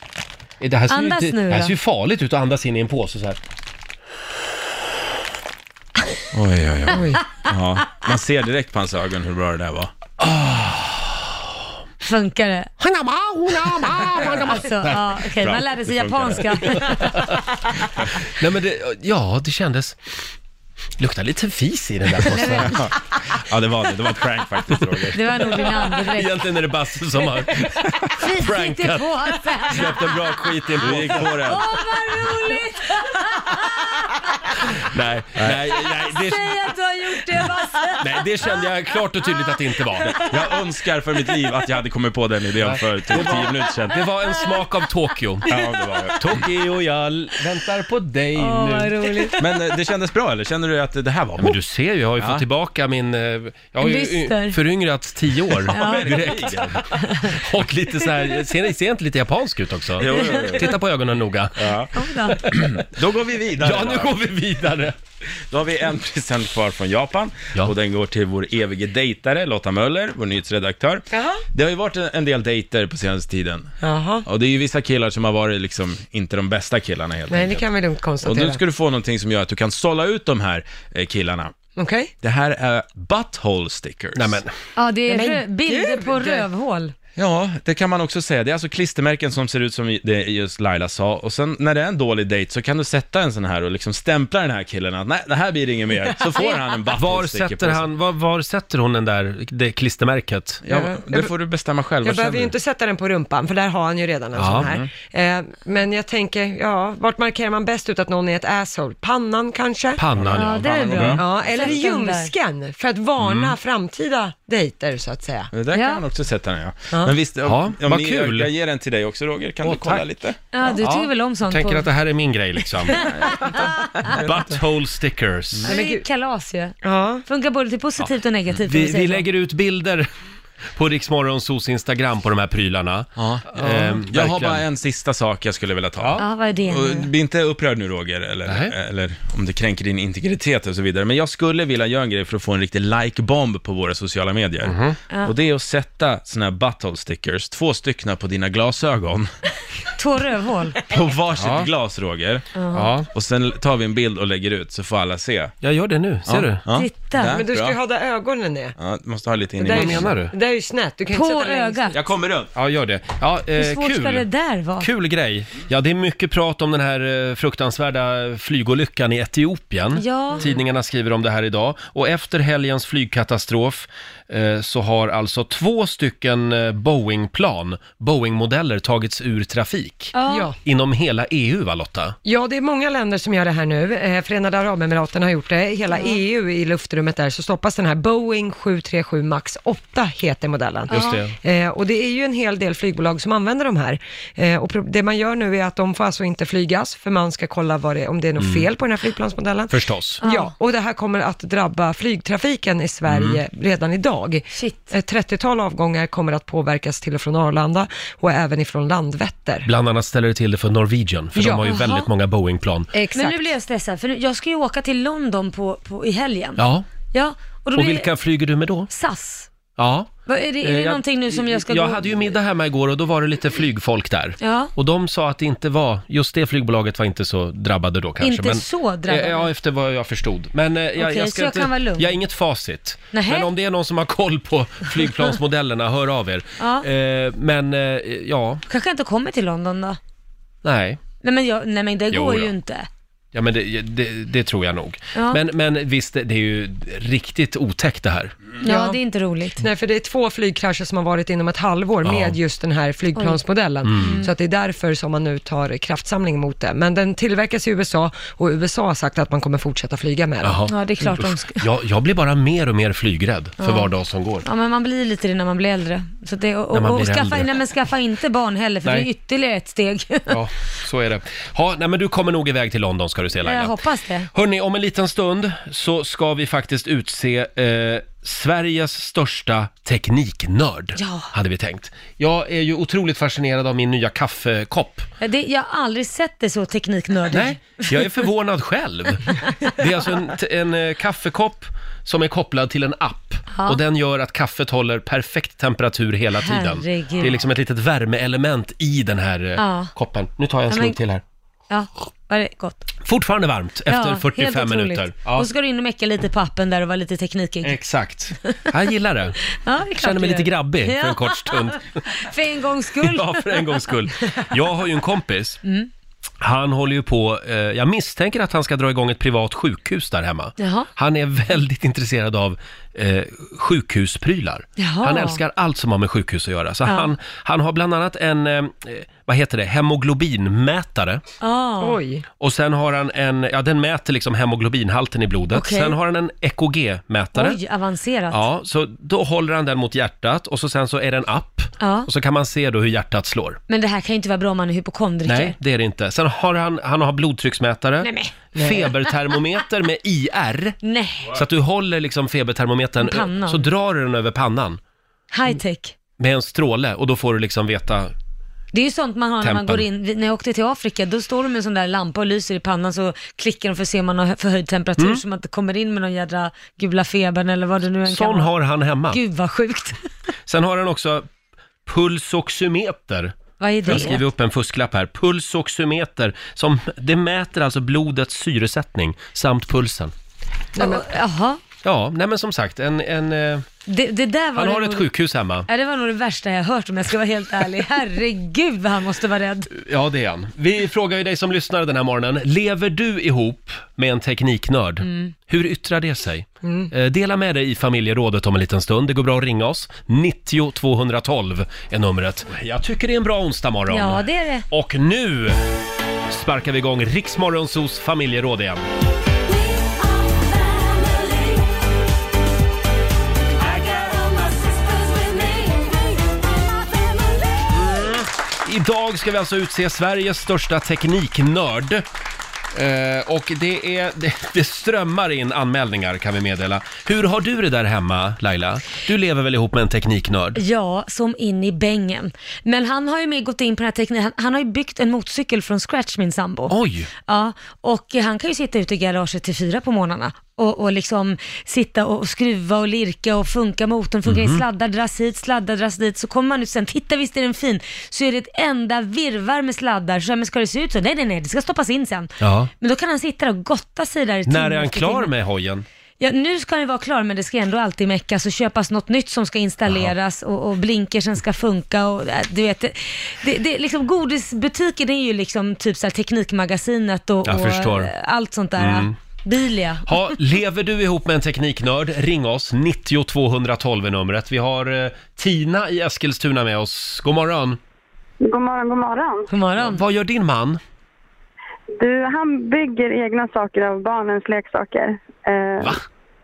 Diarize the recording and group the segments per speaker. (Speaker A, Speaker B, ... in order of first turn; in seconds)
Speaker A: 0.6-3.4, 10.2-11.1, 12.8-15.1, 16.8-17.6, 18.2-20.2, 21.0-22.8, 25.4-31.6, 34.8-36.4, 38.0-40.3, 42.6-49.2, 51.4-62.7, 63.6-65.0, 84.1-84.5, 96.9-100.6, 104.3-104.8, 110.0-111.2, 113.2-113.5, 117.4-118.5, 119.6-120.0, 120.8-123.4, 124.0-125.7, 128.6-130.1, 130.7-134.6, 136.0-136.2, 138.4-138.7, 144.6-145.0, 151.3-151.7, 152.7-153.1, 155.6-156.6, 159.7-160.3, 162.5-164.3, 164.8-182.2, 190.9-191.3, 198.4-198.7, 199.7-200.2, 203.1-203.4, 209.6-212.9, 216.6-216.8, 217.7-218.9, 219.8-238.6, 240.6-241.0, 242.1-242.5, 243.3-248.3, 252.0-252.4, 253.8-254.2, 260.4-264.4, 266.7-267.6, 268.8-269.1, 270.3-273.8, 274.3-285.1, 287.3-301.2, 303.0-305.5, 307.6-309.4, 310.0-312.0, 313.0-315.6, 316.4-331.2, 332.4-337.6, 338.3-343.6, 345.2-350.8, 351.3-354.8, 356.2-358.1, 359.4-359.9, 365.0-365.2, 368.1-369.2, 370.5-371.3, 371.9-380.1, 381.8-383.6, 384.5-385.7, 389.7-405.6, 406.3-408.8, 417.7-422.0, 422.7-430.6, 436.7-437.1, 444.2-444.6, 452.4-452.7, 454.5-455.8, 459.9-460.1, 467.4-468.1, 468.8-469.2, 470.1-477.8, 479.8-480.8
Speaker B: 0.9-1.7, 12.0-12.7, 14.4-17.2, 22.3-22.8, 25.1-26.4, 28.2-30.1, 31.5-34.0, 36.1-38.1, 48.4-49.4, 53.8-54.6, 55.7-56.3, 57.0-57.3, 60.1-60.6, 61.9-62.4, 84.8-86.9, 110.3-112.3, 115.7-116.0, 120.5-121.9, 123.3-123.6, 125.7-129.3, 136.2-137.1, 150.0-150.8, 152.5-152.9, 156.7-157.3, 161.1-161.9, 163.6-164.9, 169.9-170.5, 180.1-180.5, 185.9-186.2, 190.9-191.2, 200.2-200.5, 204.5-204.9, 211.6-212.1, 213.1-218.1, 218.9-219.5, 220.2-222.1, 224.4-224.7, 228.2-229.5, 231.0-232.1, 233.1-233.5, 236.6-236.9, 238.7-240.0, 241.2-242.9, 245.1-245.4, 248.6-249.6, 253.1-253.4, 254.0-254.3, 260.7-261.6, 263.6-263.9, 264.4-270.4, 273.4-274.3, 280.9-281.3, 285.2-288.1, 293.5-293.8, 296.4-297.4, 299.6-299.9, 300.7-301.0, 301.7-302.9, 303.9-307.8, 309.5-313.9, 315.6-315.9, 320.6-320.9, 324.8-325.4, 326.9-327.1, 331.4-332.0, 335.5-336.0, 337.3-338.5, 341.8-342.1, 343.7-345.6, 348.0-348.3, 350.8-351.4, 353.0-353.7, 355.3-355.9, 358.7-368.5, 369.1-370.1, 373.6-374.2, 380.8-381.6, 383.9-385.1, 385.7-389.7, 395.0-395.3, 403.9-404.6, 415.3-415.7, 430.5-436.7, 437.2-455.3, 456.2-470.4, 479.5-480.0
Speaker C: 6.3-9.9, 14.2-14.6, 15.3-16.8, 17.8-18.2, 22.6-25.7, 30.8-31.6, 35.4-36.5, 40.1-44.1, 45.5-46.4, 49.4-51.6, 52.2-52.4, 55.6-56.9, 60.0-60.7, 61.6-64.2, 65.5-73.7, 74.2-77.6, 78.2-81.5, 82.2-84.4, 87.2-97.8, 100.6-102.5, 104.5-104.9, 110.2-111.2, 115.5-120.4, 123.0-124.4, 133.2-149.3, 150.9-152.4, 153.1-155.5, 156.2-157.8, 158.8-160.1, 161.9-162.5
Speaker D: 6.9-7.2, 71.1-71.4, 73.8-74.2, 77.3-78.6, 81.8-82.1, 85.1-86.5, 96.2-96.5, 100.7-101.3, 102.0-110.0, 111.1-115.5, 125.7-126.0, 126.8-127.2, 157.3-158.8, 159.6-161.9, 180.2-180.6, 182.2-209.7, 211.3-211.7, 212.9-213.5, 248.6-249.0, 249.6-260.6, 331.8-332.2, 348.6-348.9, 380.8-381.1, 396.6-396.9
Speaker E: 478.4-479.5, 482.0-486.0